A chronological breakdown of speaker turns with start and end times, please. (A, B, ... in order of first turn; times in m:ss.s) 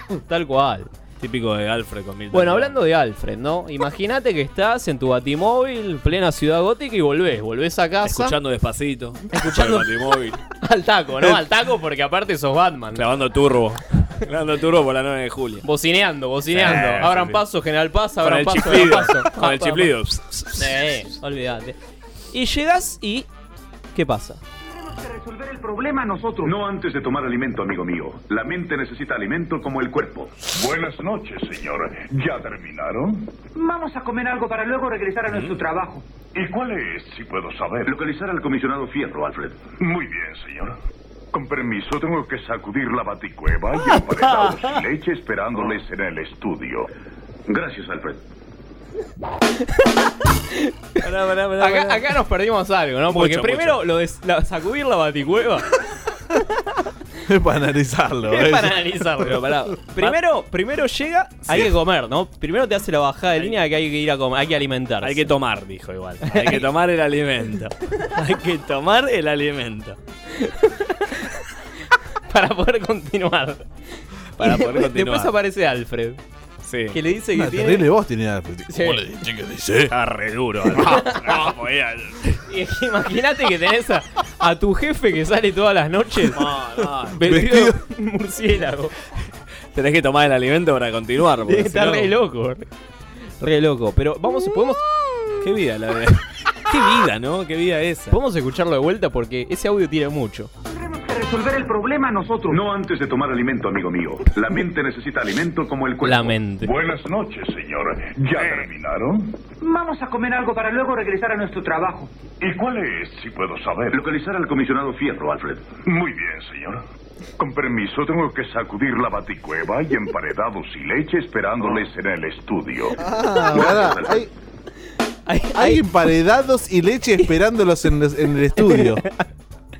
0:00.3-0:00.9 A
0:01.2-0:02.8 B
0:02.3-0:08.3 A
0:08.0-0:10.4 B
0:09.3-0:09.8 A
0:10.6-0:13.1 A
0:12.9-0:15.6 B
0:15.6-0:19.9 A
0:16.5-0:17.4 B
0:18.2-0:20.8 B
0:20.5-0:21.8 A
0:22.3-0:23.3 A
0:23.9-0:24.4 A
0:24.7-0:26.5 C
0:26.4-0:33.3 D
0:33.5-0:36.1 C
0:35.3-0:35.5 B
0:36.3-0:40.8 D
0:41.3-0:46.9 D
0:47.5-0:48.2 D
0:51.0-0:52.1 B
0:51.6-0:55.7 A
0:53.1-0:53.8 B
0:57.2-0:58.9 E
0:58.3-1:05.3 A
0:59.2-1:00.2 B
1:05.0-1:10.0 B
1:06.2-1:06.6 A
1:10.4-1:11.1 A
1:12.3-1:13.7 A
1:14.4-1:15.3 B
1:14.4-1:16.2 A
1:16.6-1:17.0 B
1:16.9-1:17.8 A
1:17.3-1:19.9 E
1:18.7-1:19.0 A
1:19.9-1:22.4 B
1:20.8-1:21.2 A
1:22.5-1:26.4 A
1:26.2-1:27.2 B
1:27.1-1:28.9 A
1:27.2-1:27.7 E
1:29.7-1:32.1 B
1:31.4-1:32.6 A
1:33.4-1:34.8 A
1:35.4-1:38.2 B
1:38.1-1:40.5 A
1:40.7-1:42.6 C
1:42.5-1:49.4 D
1:46.0-1:46.7 A
1:49.6-1:52.1 C
1:52.4-1:56.8 D
1:57.4-2:03.0 D
2:03.0-2:04.3 E
2:03.5-2:04.2 D
2:05.3-2:05.8 A
2:05.5-2:09.0 E
2:08.6-2:09.1 A